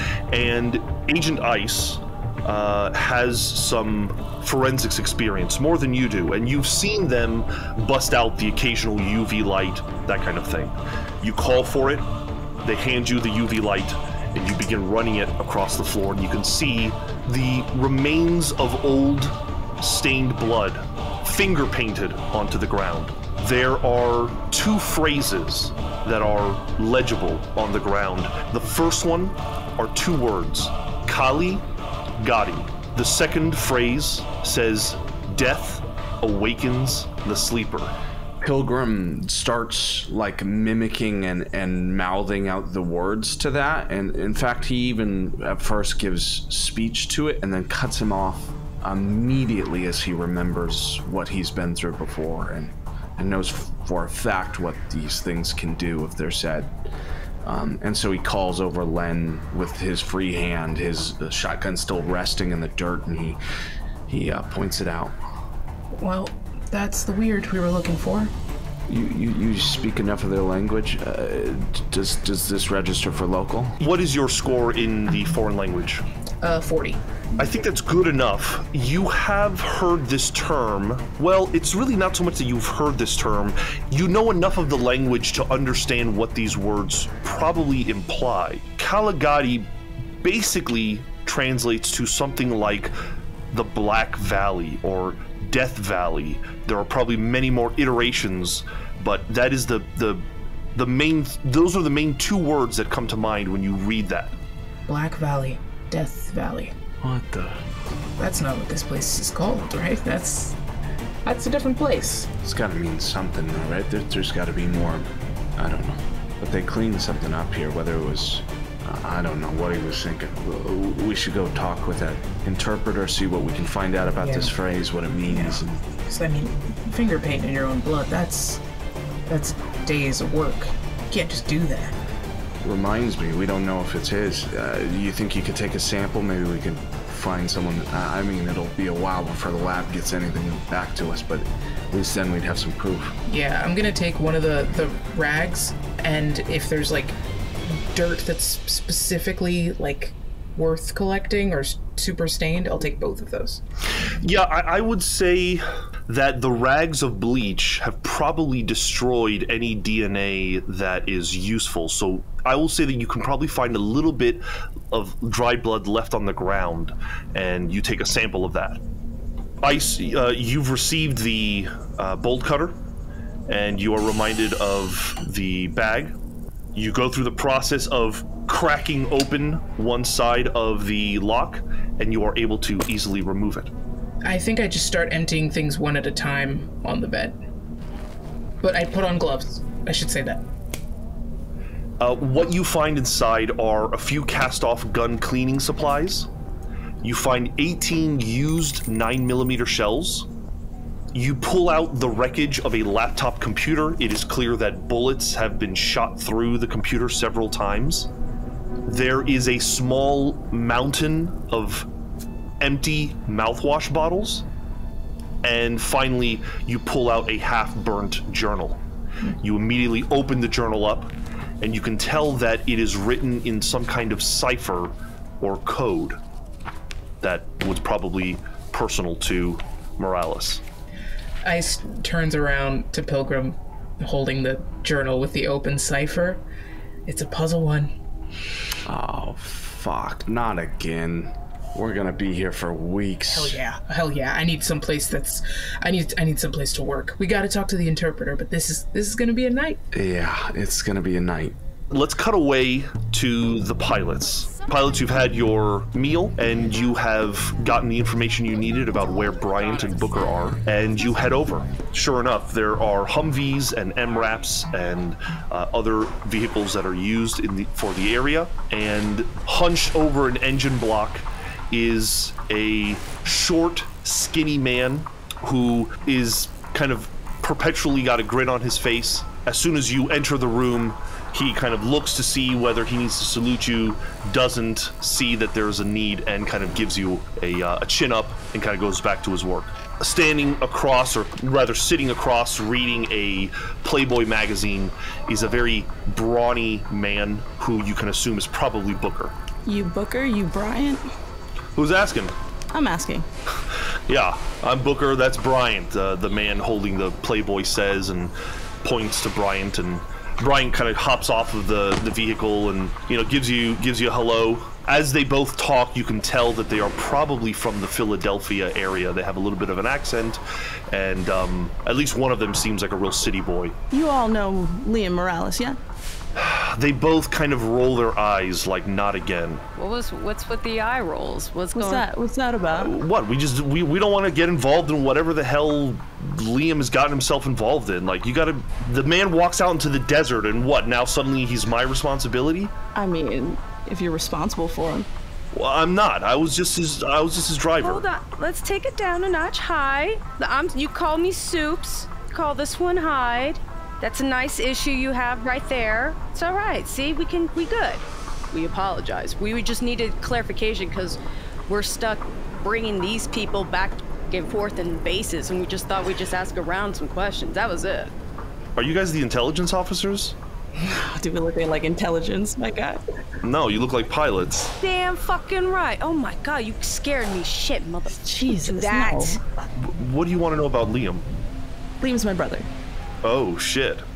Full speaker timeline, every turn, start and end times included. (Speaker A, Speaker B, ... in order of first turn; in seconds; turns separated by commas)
Speaker A: 0.3-12.1, Speaker A: 12.6-31.6, Speaker A: 32.2-37.9, Speaker B: 38.4-56.8, Speaker B: 57.4-63.4, Speaker B: 64.1-65.2, Speaker C: 66.0-68.3, Speaker B: 68.9-73.8, Speaker A: 73.8-76.0, Speaker C: 76.4-77.0, Speaker A: 77.4-89.7, Speaker A: 90.2-92.9, Speaker A: 93.5-104.3, Speaker C: 104.9-106.8, Speaker B: 107.0-107.6, Speaker C: 108.2-110.5, Speaker C: 111.2-112.3, Speaker B: 112.4-125.7, Speaker C: 124.2-124.5, Speaker C: 125.3-128.6, Speaker C: 129.3-131.9, Speaker B: 132.6-143.1, Speaker C: 143.3-153.6, Speaker A: 154.2-168.8, Speaker A: 169.6-172.8, Speaker A: 173.5-176.1, Speaker A: 176.7-183.7, Speaker C: 184.2-187.4, Speaker C: 188.6-190.4, Speaker A: 192.0-196.3, Speaker A: 197.0-200.3, Speaker A: 201.1-208.1, Speaker A: 208.8-211.9, Speaker A: 212.6-214.4, Speaker A: 215.4-218.8, Speaker A: 219.4-226.2, Speaker A: 227.2-230.6, Speaker C: 231.4-236.4, Speaker C: 237.1-237.9, Speaker B: 238.8-243.6, Speaker C: 243.3-249.8, Speaker B: 249.9-251.6, Speaker A: 251.9-299.3, Speaker D: 299.7-301.1, Speaker A: 301.8-302.4, Speaker D: 302.7-303.3, Speaker A: 303.7-320.4, Speaker A: 320.9-323.8, Speaker D: 323.9-325.8, Speaker A: 326.4-329.6, Speaker E: 329.8-332.0, Speaker D: 331.7-332.9, Speaker A: 332.7-342.7, Speaker D: 342.9-345.1, Speaker A: 345.5-348.1, Speaker E: 347.8-368.1, Speaker A: 368.8-370.4, Speaker D: 370.8-373.0, Speaker A: 373.4-374.7, Speaker E: 374.8-379.4, Speaker D: 378.2-379.4, Speaker A: 379.8-381.3, Speaker D: 382.0-382.7, Speaker A: 383.2-384.1